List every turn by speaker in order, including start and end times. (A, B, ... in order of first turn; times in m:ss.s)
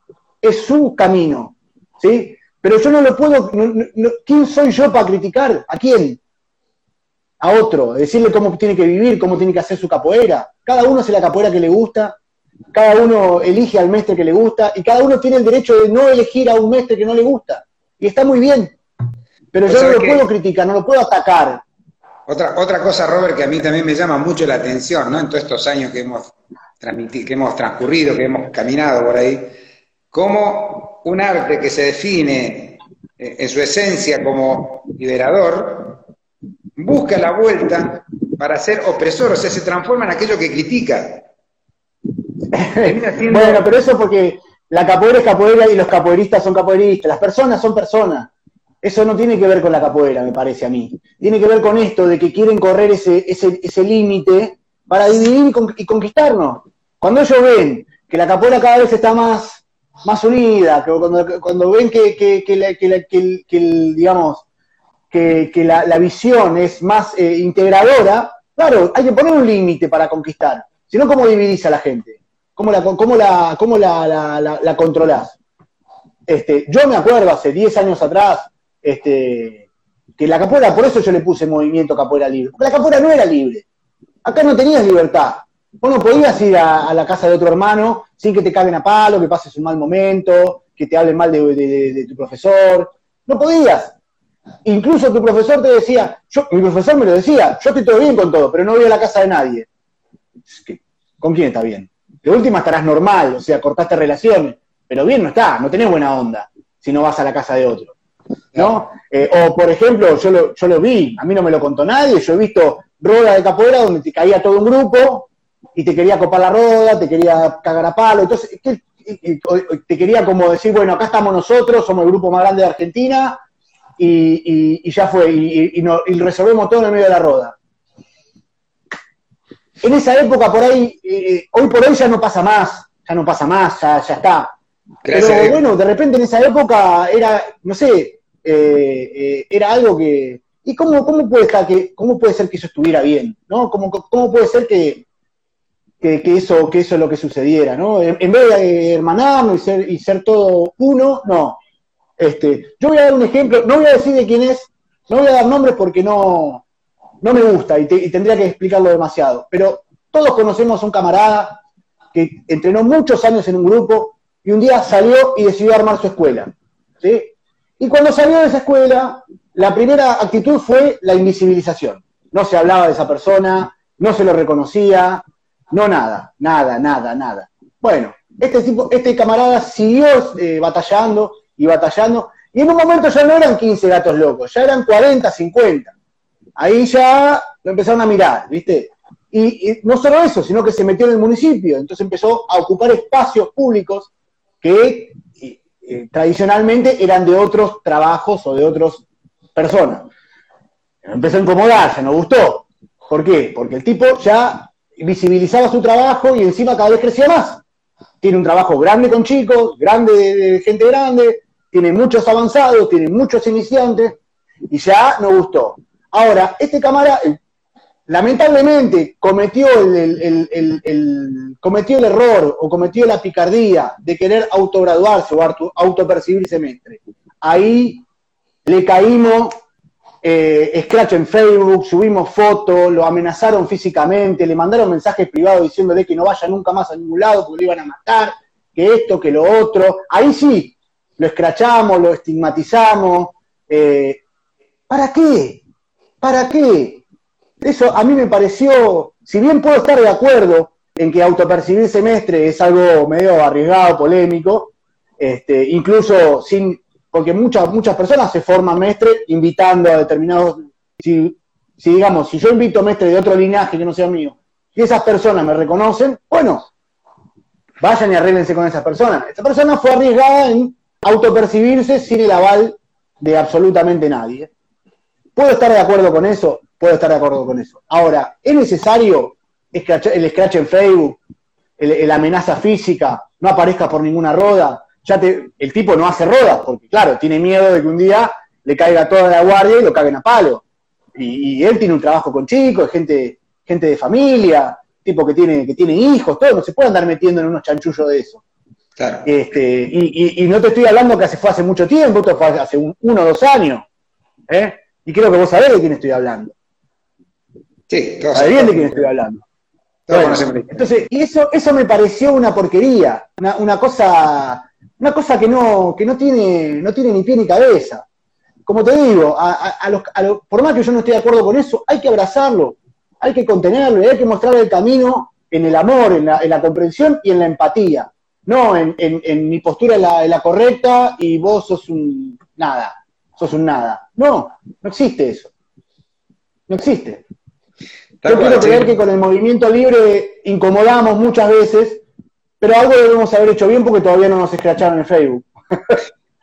0:00.4-0:06.2 A
0:07.4-0:12.2 A
0:12.7-0:18.8 A
0:19.5-0:21.6 A
0:19.6-0:20.2 B
0:22.3-0:29.5 B
0:30.1-0:36.0 B
0:36.8-0:41.2 B
0:42.5-0:48.3 A
0:42.8-0:43.7 B
0:48.8-1:04.4 A
1:05.1-1:15.4 A
1:16.3-1:19.6 A
1:20.2-1:23.6 A
1:24.2-1:33.9 A
1:34.6-1:39.7 A
1:40.5-1:47.9 A
1:48.5-1:48.8 B
1:48.6-2:03.4 A
2:04.0-2:07.6 A
2:09.8-2:14.5 A
2:15.0-2:15.6 B
2:15.1-2:25.0 A
2:26.0-2:31.6 A
2:32.2-2:36.6 A
2:37.2-2:41.6 A
2:42.1-3:05.9 A
3:06.6-3:14.1 A
3:14.6-3:20.1 A
3:21.0-3:27.6 A
3:28.2-3:34.2 A
3:34.7-3:37.4 A
3:38.1-3:48.0 A
3:48.6-3:49.5 A
3:50.2-4:04.2 A
4:04.9-4:05.6 A
4:06.2-4:07.0 A
4:07.6-4:26.7 A
4:27.8-4:34.5 A
4:35.4-4:41.2 A
4:41.8-4:50.6 A
4:51.1-4:58.4 A
4:59.0-4:59.3 B
4:59.2-5:03.8 A
5:04.5-5:06.5 A
5:07.9-5:09.1 B
5:08.3-5:09.4 A
5:10.1-5:10.9 B
5:10.1-5:18.0 A
5:18.6-5:35.5 A
5:36.7-5:37.2 A
5:38.2-5:39.0 B
5:38.2-5:42.0 A
5:42.6-5:46.0 A